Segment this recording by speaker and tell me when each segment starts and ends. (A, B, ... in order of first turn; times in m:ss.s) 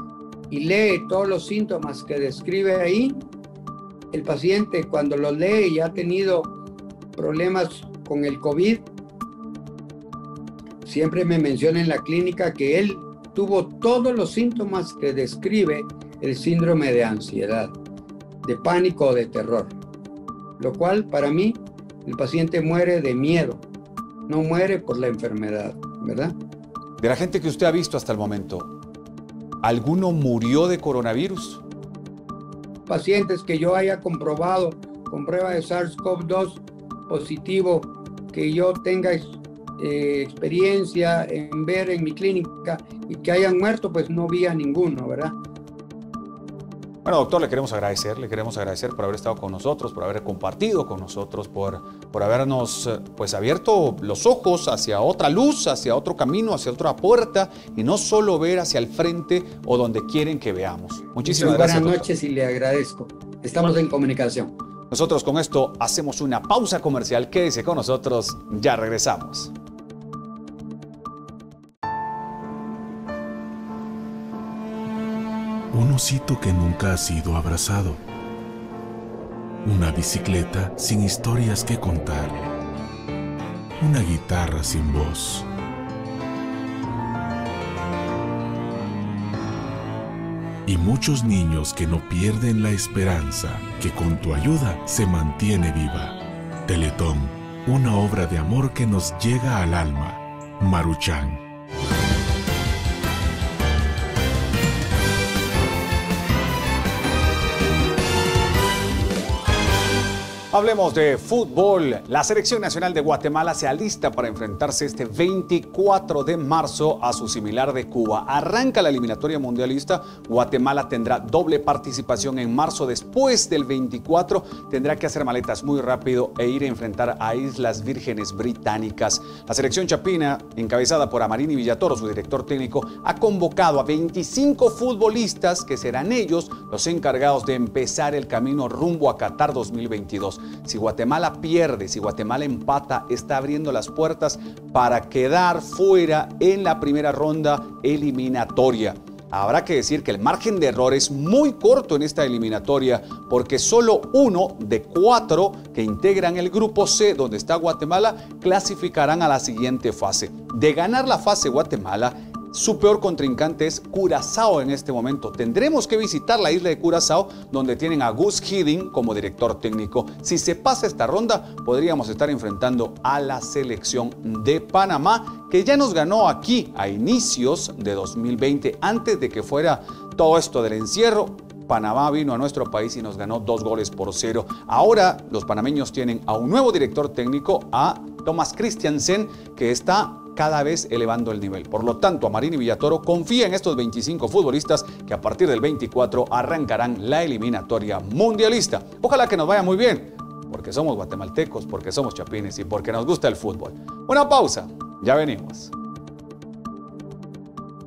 0:00.5-0:03.2 A
0:04.1-0:06.5 A
0:07.2-0:08.9 A
0:10.8-0:17.7 A
0:18.4-0:19.7 A
0:20.6-0:23.6 A
0:24.3-0:26.3 A
0:27.0-0:28.7 B
0:29.6-0:31.6 B
0:32.9-0:45.4 A
0:47.0-1:02.1 B
1:01.3-1:04.5 A
1:04.9-1:09.5 B
1:15.7-1:18.0 C
1:19.6-1:22.5 C
1:23.8-1:25.5 C
1:30.7-1:41.4 C
1:50.5-3:25.7 B